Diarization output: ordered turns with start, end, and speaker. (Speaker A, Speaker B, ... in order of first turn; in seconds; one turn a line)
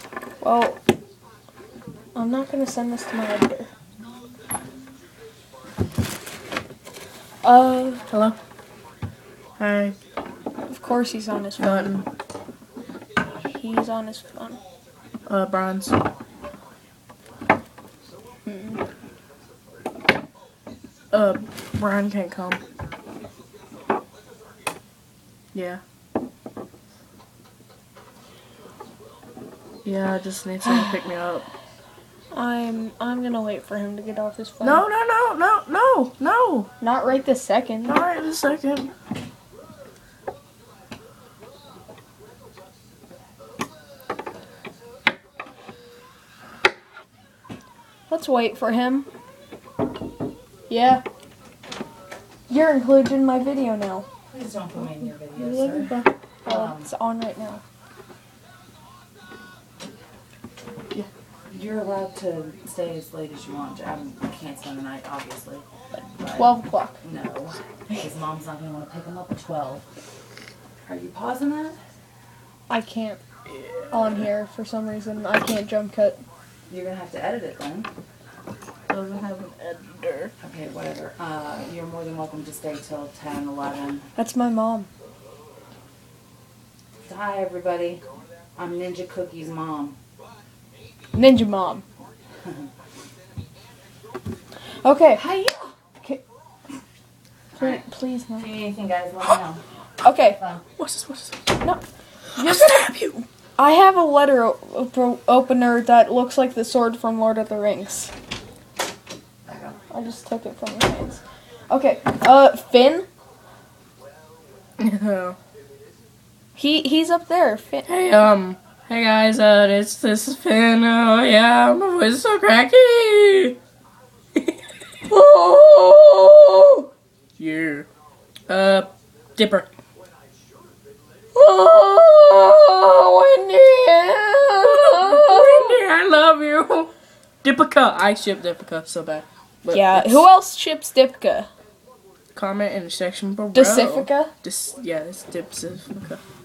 Speaker A: 0.4-0.8
Speaker A: 2.1-3.7
Speaker A: 7.4-8.0
Speaker B: 8.1-8.4
Speaker B: 9.6-10.0
Speaker A: 10.7-11.9
Speaker B: 11.6-12.1
Speaker A: 13.4-14.6
Speaker B: 15.3-16.0
Speaker A: 18.5-18.8
Speaker B: 21.1-22.6
Speaker B: 25.5-25.8
Speaker B: 29.9-31.5
Speaker A: 32.3-34.9
Speaker B: 34.6-36.7
Speaker A: 36.8-38.0
Speaker B: 37.9-38.9
Speaker A: 48.1-49.1
Speaker A: 50.7-51.0
Speaker A: 52.5-54.1
Speaker C: 54.3-55.9
Speaker B: 54.8-56.1
Speaker C: 56.5-56.9
Speaker A: 56.5-57.6
Speaker C: 61.5-65.7
Speaker C: 66.2-66.5
Speaker A: 66.3-67.0
Speaker C: 67.0-69.8
Speaker C: 70.8-71.8
Speaker A: 72.7-73.2
Speaker B: 73.5-73.9
Speaker A: 73.9-76.2
Speaker C: 76.7-77.9
Speaker B: 78.9-80.3
Speaker C: 80.4-84.1
Speaker A: 84.2-84.9
Speaker C: 87.0-88.0
Speaker C: 88.6-90.0
Speaker A: 91.1-91.8
Speaker A: 94.8-95.3
Speaker C: 95.2-95.7
Speaker A: 97.6-98.5
Speaker C: 98.4-99.6
Speaker A: 100.0-100.4
Speaker C: 100.3-100.6
Speaker B: 100.8-101.6
Speaker B: 102.3-103.2
Speaker A: 102.3-102.9
Speaker A: 103.6-108.1
Speaker C: 109.5-109.8
Speaker A: 109.9-113.1
Speaker B: 114.8-115.4
Speaker A: 116.6-117.9
Speaker B: 117.9-123.6
Speaker A: 125.1-126.9
Speaker B: 127.4-127.9
Speaker B: 128.5-129.7
Speaker A: 131.3-135.8
Speaker B: 134.6-136.9
Speaker B: 137.4-140.2
Speaker A: 139.7-141.5
Speaker B: 142.3-146.2
Speaker A: 143.5-144.3